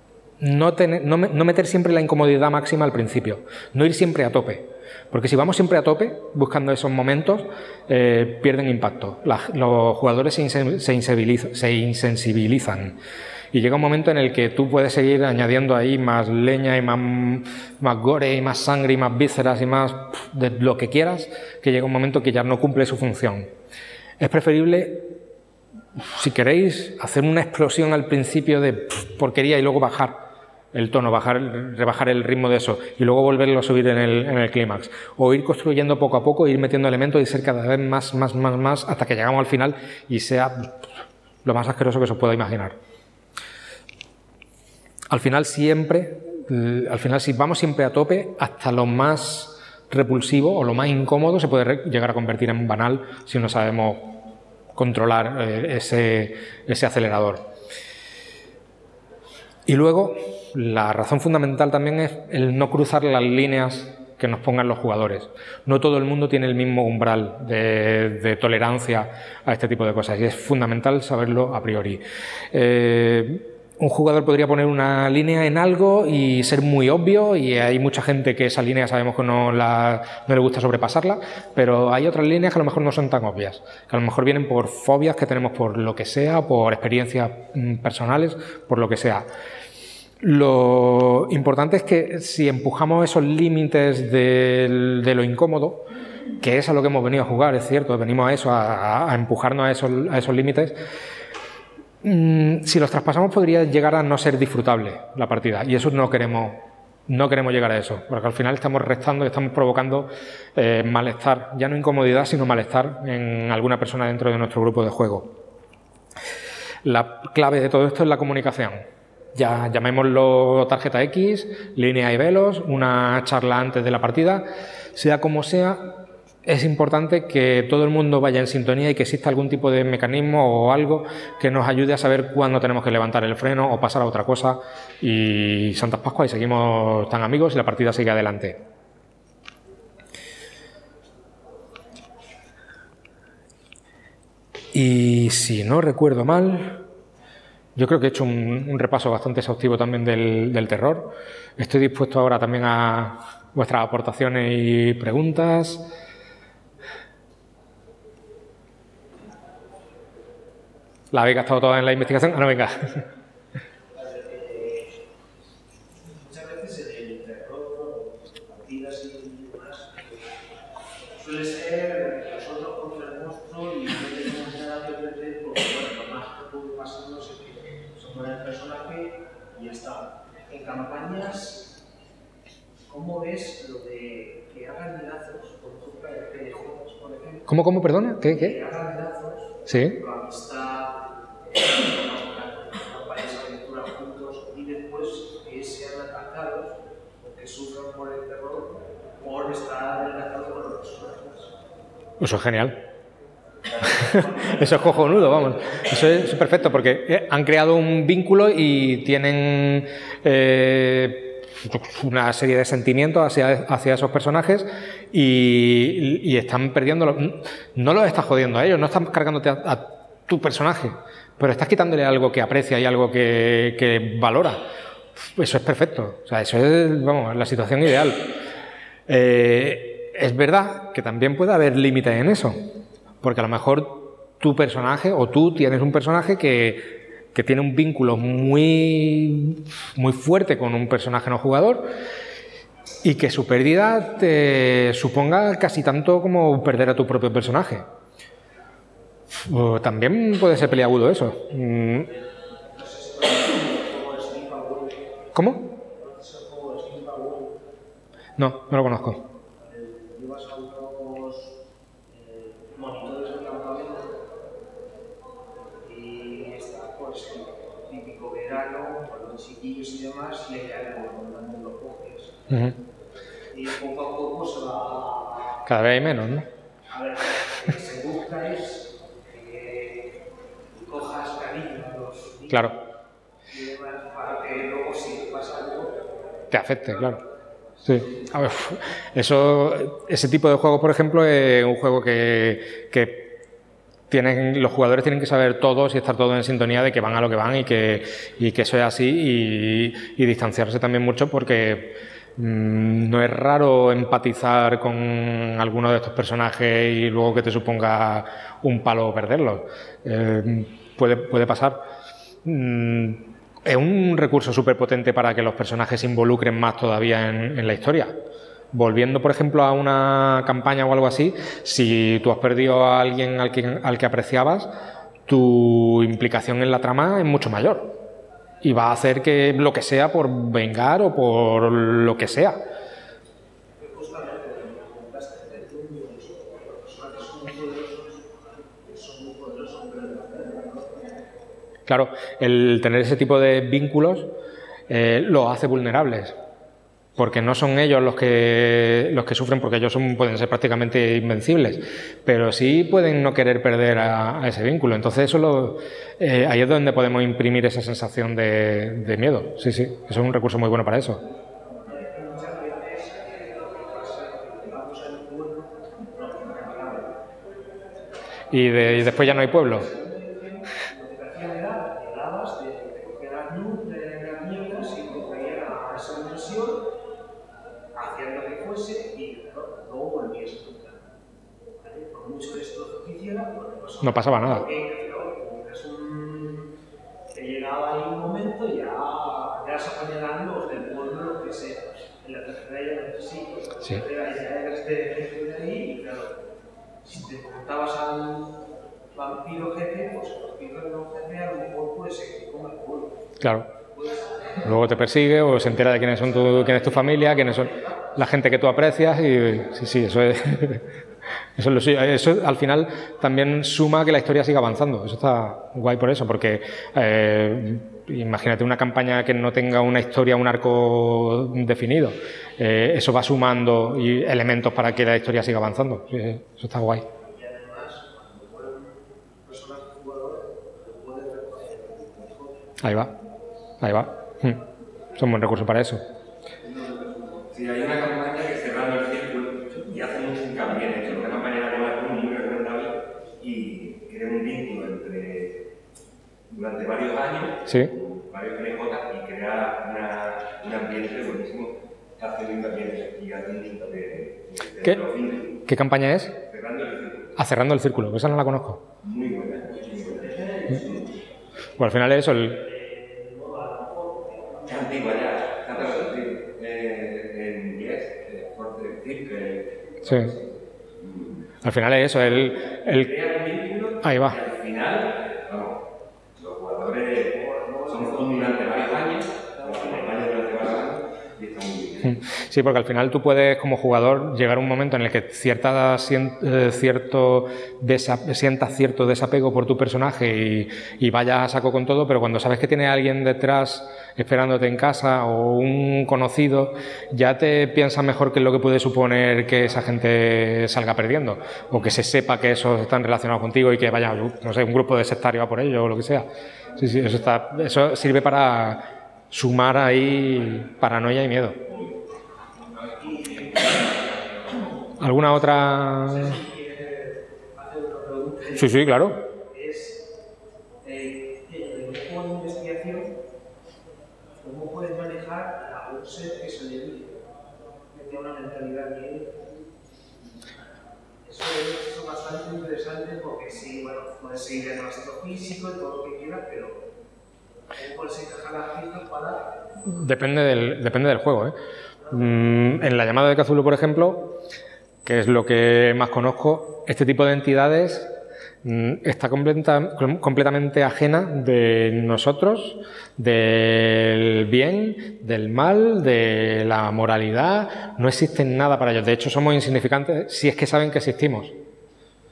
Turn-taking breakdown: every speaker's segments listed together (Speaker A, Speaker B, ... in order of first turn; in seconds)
Speaker A: 0.4-13.0, 13.5-23.5, 24.2-25.1, 26.1-40.8, 41.4-42.8, 45.1-57.4, 59.6-89.3, 90.2-95.8, 96.4-100.8, 102.0-115.3, 116.8-138.6, 144.7-146.8, 147.8-155.8, 161.1-163.0, 187.5-188.6, 189.7-190.0, 202.2-202.8, 203.8-224.6, 225.3-228.3, 229.1-232.6, 233.2-241.9, 243.0-247.8, 249.4-252.1, 255.3-255.7, 258.4-259.2, 272.5-272.8, 275.6-276.5, 282.5-282.8, 286.5-287.2, 287.8-293.3, 294.1-311.8, 312.4-318.2, 318.7-324.7, 325.3-328.0, 328.6-332.6, 341.9-344.3, 344.9-346.3, 347.2-361.2, 368.5-369.9, 384.0-384.7, 403.4-403.7, 404.6-410.9, 411.6-427.1, 432.8-433.1, 433.8-434.6, 435.2-436.0, 447.7-447.9, 455.6-456.4, 457.4-458.8, 461.8-462.6, 470.0-470.3, 471.6-473.1, 474.0-474.4, 482.0-511.6, 515.0-516.3, 518.6-519.2, 539.8-541.5, 542.1-544.3, 545.0-548.1, 548.6-561.5
Speaker B: 163.9-164.9, 166.0-170.3, 171.2-181.7, 182.9-187.5, 188.2-201.5, 203.8-205.8, 252.6-257.6, 259.6-261.6, 262.1-264.2, 265.8-272.5, 273.5-275.6, 276.9-280.2, 280.7-282.8, 283.5-285.9, 286.9-287.2, 333.8-341.0, 361.8-367.2, 368.6-376.9, 377.9-381.1, 381.8-386.7, 387.3-396.5, 397.0-398.6, 399.1-403.3, 403.9-404.9, 405.7-408.1, 427.2-432.7, 459.8-461.1, 462.5-465.2, 473.1-473.9, 477.2-480.6, 513.0-513.8, 516.0-520.1, 520.8-523.1, 524.4-527.3, 527.9-529.4, 531.2-536.9, 537.8-539.6
Speaker C: 436.7-445.6, 446.5-455.6, 456.4-457.3, 459.0-460.8, 464.6-470.3, 471.0-471.5, 473.2-475.8, 476.4-482.3, 511.7-511.9, 513.0-514.6